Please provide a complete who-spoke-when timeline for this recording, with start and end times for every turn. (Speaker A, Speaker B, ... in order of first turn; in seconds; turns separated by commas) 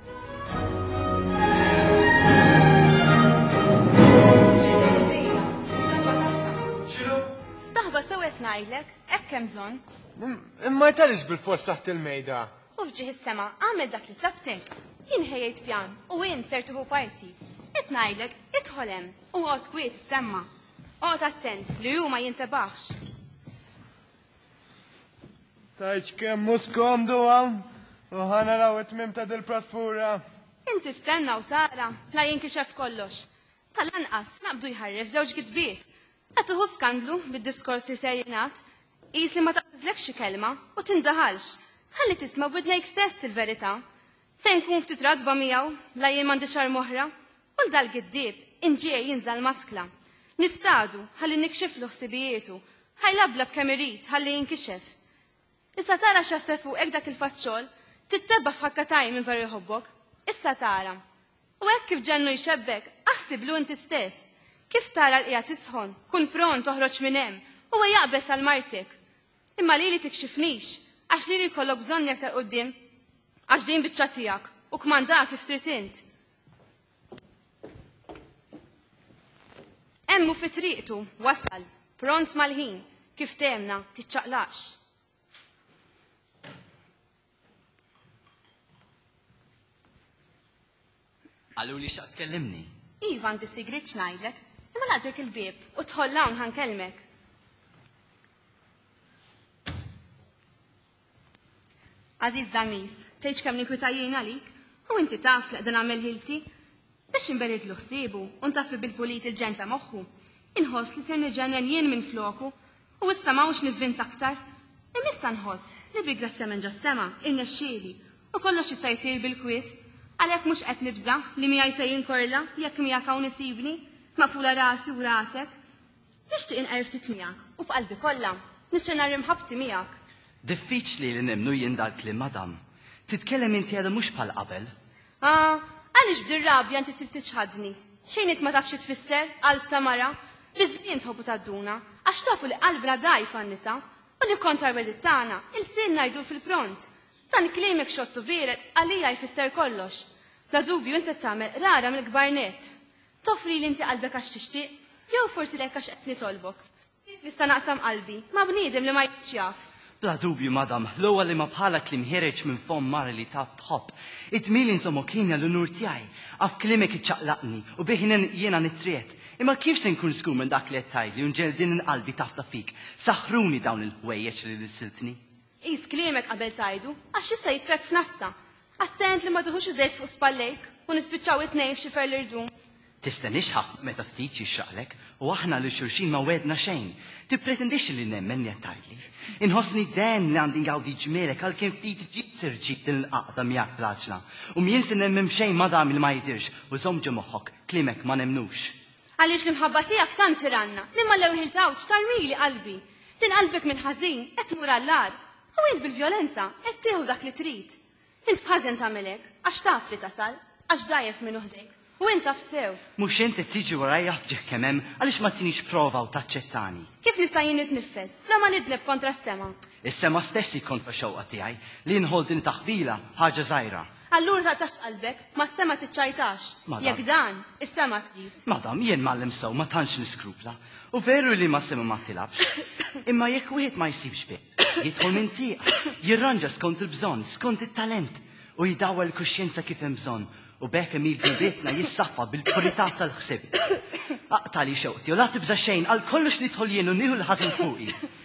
Speaker A: 4.7-6.8, Speaker A: 7.6-9.8, Speaker B: 10.2-12.5, Speaker A: 12.8-20.5, Speaker A: 21.0-22.9, Speaker B: 25.8-30.2, Speaker A: 30.7-35.9, Speaker A: 36.4-38.6, Speaker A: 39.1-43.8, Speaker A: 44.4-55.0, Speaker A: 55.8-61.0, Speaker A: 61.6-69.0, Speaker A: 69.6-72.8, Speaker A: 73.5-76.0, Speaker A: 80.1-84.8, Speaker C: 91.6-92.7, Speaker A: 93.0-97.0, Speaker A: 102.2-106.4, Speaker A: 107.1-114.4, Speaker A: 114.9-125.5, Speaker A: 126.3-129.9, Speaker C: 130.4-134.7, Speaker A: 135.2-152.7, Speaker A: 153.2-159.7, Speaker C: 160.0-175.2, Speaker A: 175.6-182.5, Speaker C: 183.0-198.8, Speaker A: 199.2-212.8, Speaker C: 213.0-216.9, Speaker A: 217.0-219.6, Speaker C: 219.8-223.9, Speaker A: 224.1-228.4, Speaker C: 226.7-227.0, Speaker C: 228.5-243.7, Speaker C: 244.3-248.0